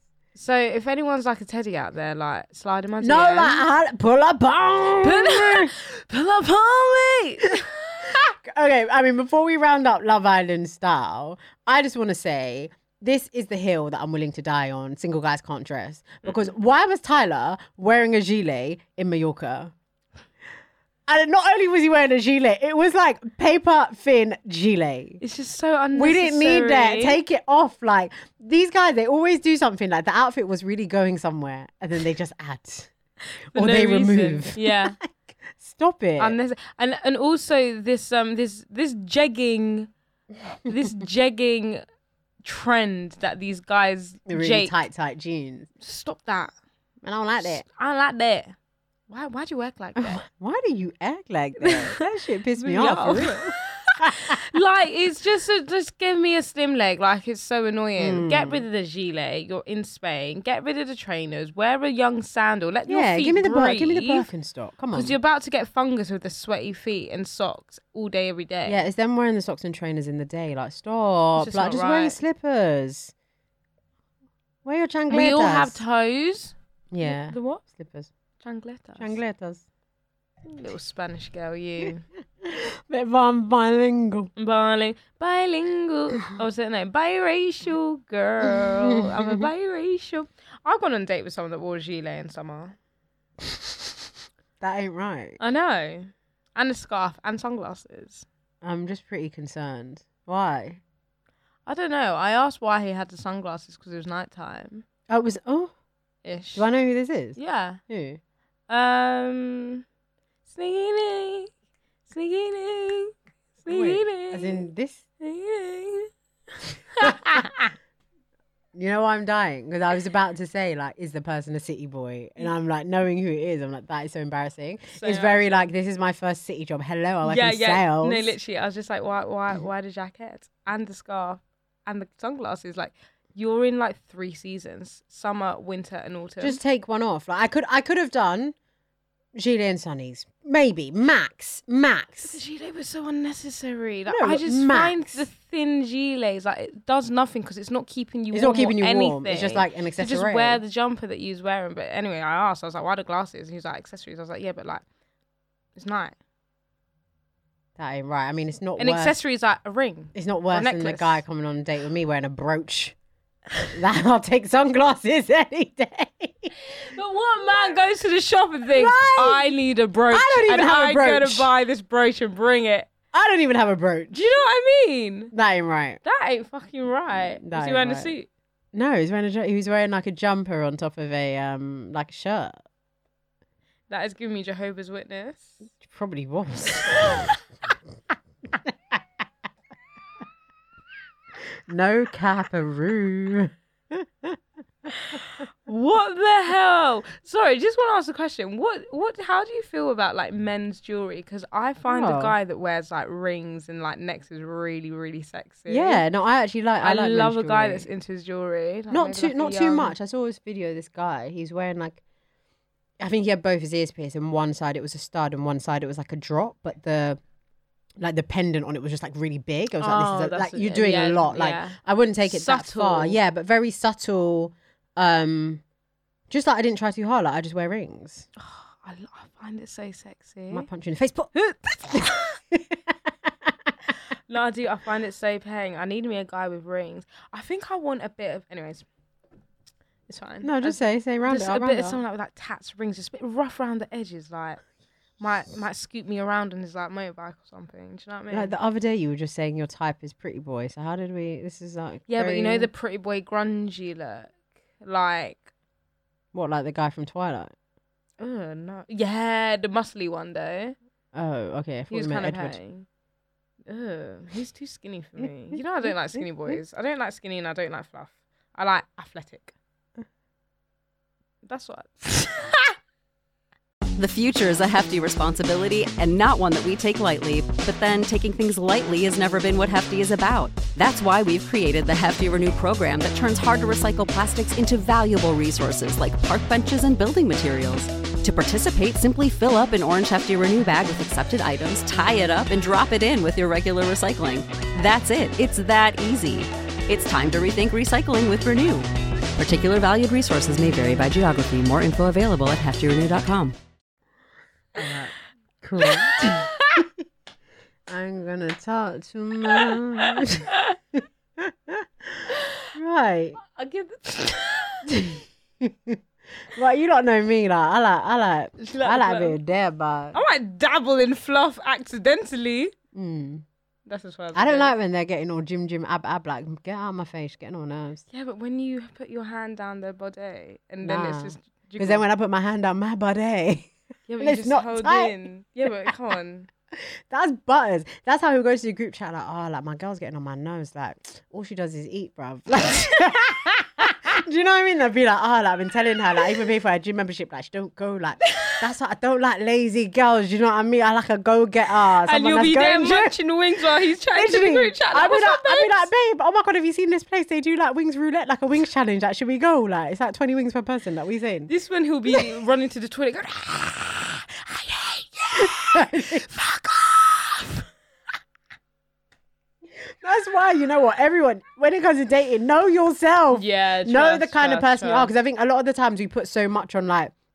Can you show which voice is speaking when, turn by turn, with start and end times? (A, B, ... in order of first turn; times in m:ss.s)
0:00.3-0:03.6 A
0:03.0-0:05.7 B
0:05.0-0:08.2 A
0:08.0-0:19.7 B
0:21.1-0:25.2 B
0:25.2-0:27.2 A
0:25.9-0:32.9 B
0:33.5-0:35.0 A
0:33.5-0:36.4 B
0:36.2-0:39.9 A
0:40.6-0:41.8 A
0:42.4-0:44.8 A
0:44.3-0:45.7 B
0:45.8-0:46.5 A
0:47.0-0:47.6 B
0:47.4-0:48.5 A
0:49.1-0:50.2 A
0:50.0-0:54.4 B
0:51.6-0:52.0 A
0:52.6-1:04.3 A
0:58.0-0:58.6 B
1:02.9-1:05.2 B
1:04.9-1:08.8 A
1:08.6-1:13.1 B
1:11.4-1:12.2 A
1:14.6-1:15.8 B
1:15.1-1:17.6 A
1:16.9-1:18.1 B
1:18.4-1:19.2 A
1:19.0-1:19.6 B
1:20.4-1:22.0 A
1:22.4-1:24.3 B
1:24.4-1:32.7 A
1:28.5-1:29.5 B
1:34.6-1:35.4 B
1:35.4-1:38.2 A
1:38.6-1:40.8 B
1:41.6-1:44.8 A
1:45.1-1:45.7 B
1:46.2-1:46.7 A
1:46.5-1:47.4 B
1:47.4-1:47.8 A
1:47.9-1:48.2 B
1:48.7-1:49.8 A
1:50.5-1:51.5 A
1:52.1-1:54.7 A
1:53.6-1:55.0 B
1:55.2-1:56.1 A
1:56.9-1:57.7 A
1:58.7-2:08.3 B
2:04.9-2:05.4 A
2:07.2-2:16.6 A
2:16.4-2:18.5 B
2:19.3-2:22.4 B
2:22.2-2:34.8 A
2:24.1-2:25.2 B
2:28.3-2:30.6 B
2:35.8-2:36.1 A
2:37.8-2:39.2 B
2:38.8-2:41.2 A
2:40.1-2:42.9 B
2:43.7-2:46.5 B
2:46.7-2:52.9 A
2:48.7-2:49.5 B
2:50.1-2:51.5 B
2:53.1-2:54.3 B
2:54.1-2:55.3 A
2:55.3-2:56.0 B
2:56.0-2:58.3 A
2:57.4-2:58.1 B
2:58.7-3:02.6 B
3:03.9-3:05.6 A
3:05.8-3:07.2 B
3:06.9-3:07.2 A
3:08.6-3:09.0 B
3:11.7-3:14.4 B
3:15.1-3:26.0 A
3:21.9-3:22.3 B
3:25.7-3:27.9 B
3:26.8-3:29.9 A
3:28.9-3:32.0 B
3:33.0-3:37.2 B
3:38.0-3:45.6 B
3:39.8-3:43.2 A
3:46.3-3:48.3 B
3:48.4-3:50.7 A
3:50.5-3:51.3 B
3:51.3-3:52.3 A
3:51.9-3:53.7 B
3:54.3-3:58.8 A
4:00.1-4:04.6 A
4:00.4-4:02.0 B
4:05.2-4:08.5 A
4:08.3-4:12.7 B
4:12.1-4:15.5 A
4:16.3-4:17.5 B
4:18.2-4:20.7 A
4:21.1-4:22.6 B
4:21.9-4:22.8 A
4:23.7-4:29.5 A
4:25.2-4:26.6 B
4:31.4-4:32.7 A
4:34.0-5:03.5 C
5:04.8-5:06.9 B
5:06.1-5:06.4 A
5:07.9-5:13.4 B
5:13.4-5:14.9 A
5:14.9-5:16.0 B
5:16.5-5:20.2 B
5:18.6-5:19.4 A
5:20.1-5:22.7 A
5:22.9-5:23.4 B
5:23.8-5:24.7 A
5:24.3-5:28.0 B
5:28.1-5:32.0 A
5:30.8-5:35.1 B
5:34.1-5:36.5 A
5:37.1-5:53.2 B
5:52.0-5:55.9 A
5:54.1-6:01.5 B
6:01.5-6:07.6 A
6:05.4-6:06.3 B
6:09.8-6:17.1 B
6:13.3-6:15.1 A